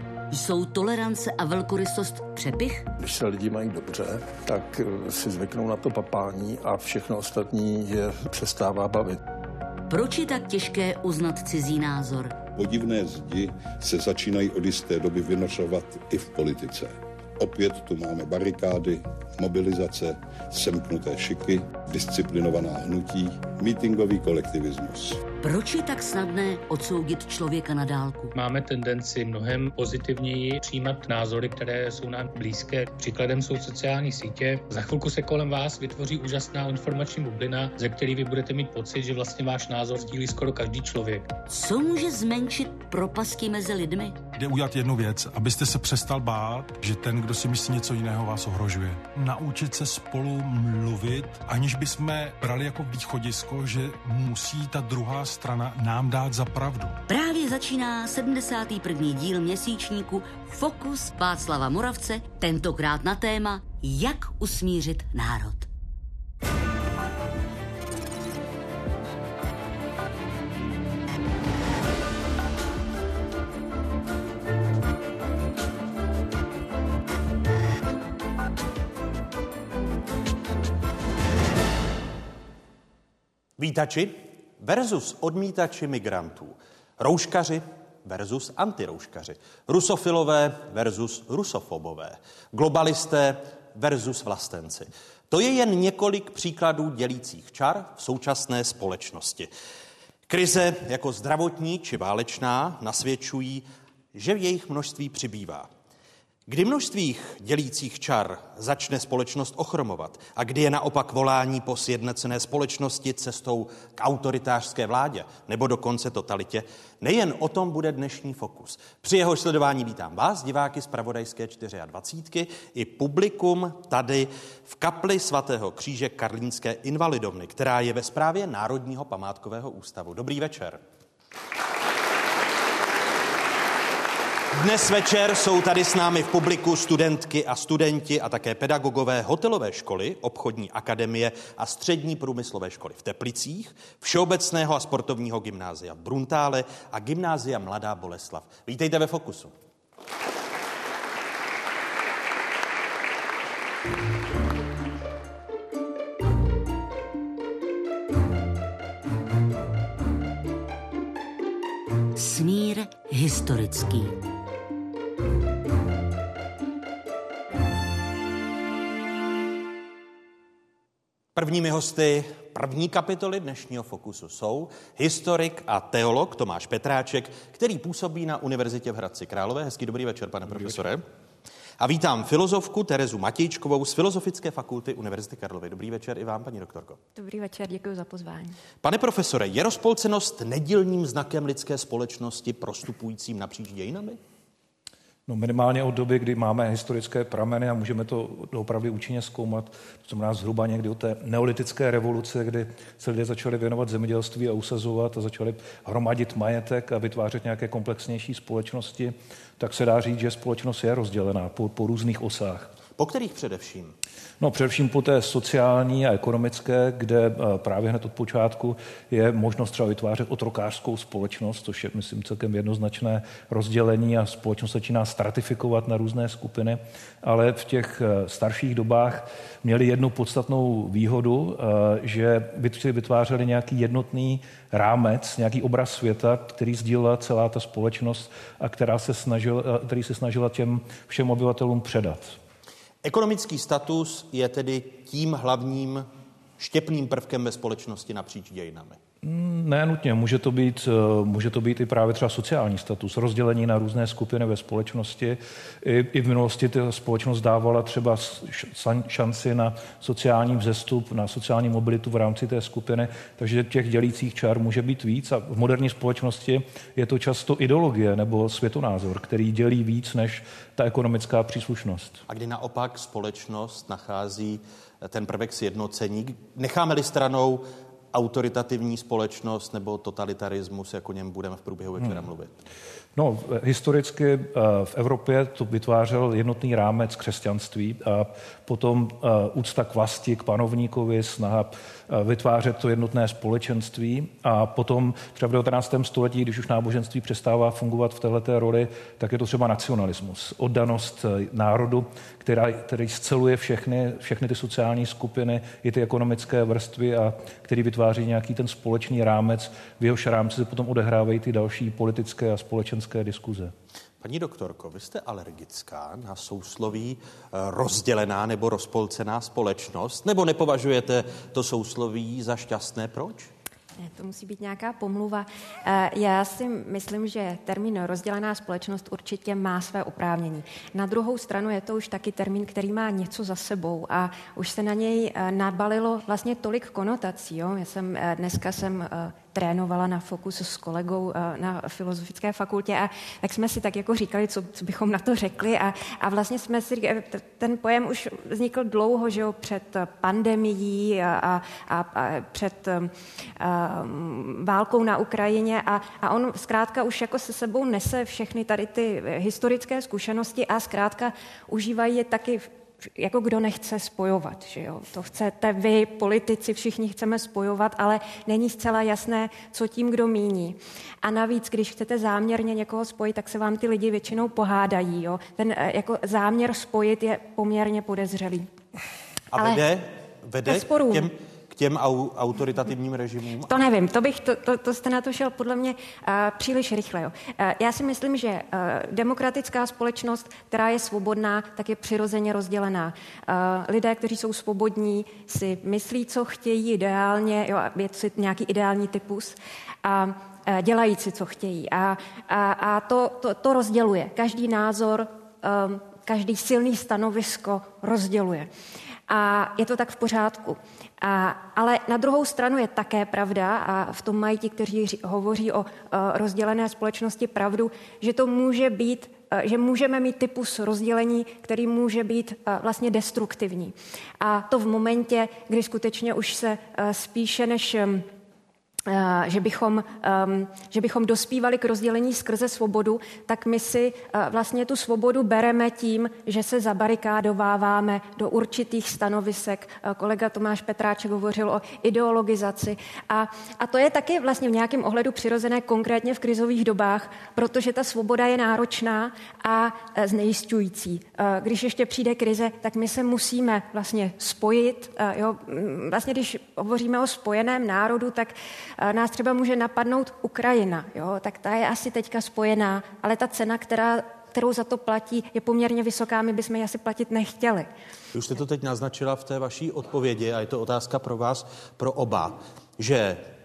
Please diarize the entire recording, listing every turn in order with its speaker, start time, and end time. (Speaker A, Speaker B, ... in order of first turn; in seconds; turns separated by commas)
Speaker A: 0.3-2.9, Speaker B: 3.0-9.2, Speaker A: 9.9-12.3, Speaker C: 12.6-25.2, Speaker A: 25.4-28.3, Speaker D: 28.3-41.3, Speaker A: 41.5-44.2, Speaker E: 44.4-57.0, Speaker A: 57.1-65.7, Speaker F: 83.6-99.5, Speaker F: 100.3-105.7, Speaker F: 106.5-130.8, Speaker F: 134.5-149.5, Speaker A: 162.2-164.1, Speaker F: 171.3-181.0, Speaker F: 181.8-187.0, Speaker G: 187.2-188.6, Speaker F: 188.8-194.2, Speaker H: 195.3-212.7, Speaker F: 213.0-213.9, Speaker H: 214.4-242.4, Speaker F: 243.0-246.1, Speaker F: 246.6-249.0, Speaker H: 249.2-272.2, Speaker F: 272.3-282.5, Speaker H: 283.1-313.7, Speaker F: 314.2-323.5, Speaker G: 324.0-378.7, Speaker F: 379.5-383.8, Speaker G: 379.5-379.8, Speaker G: 380.6-381.3, Speaker G: 383.7-408.7, Speaker G: 409.3-428.3, Speaker G: 429.1-467.9, Speaker F: 468.3-473.5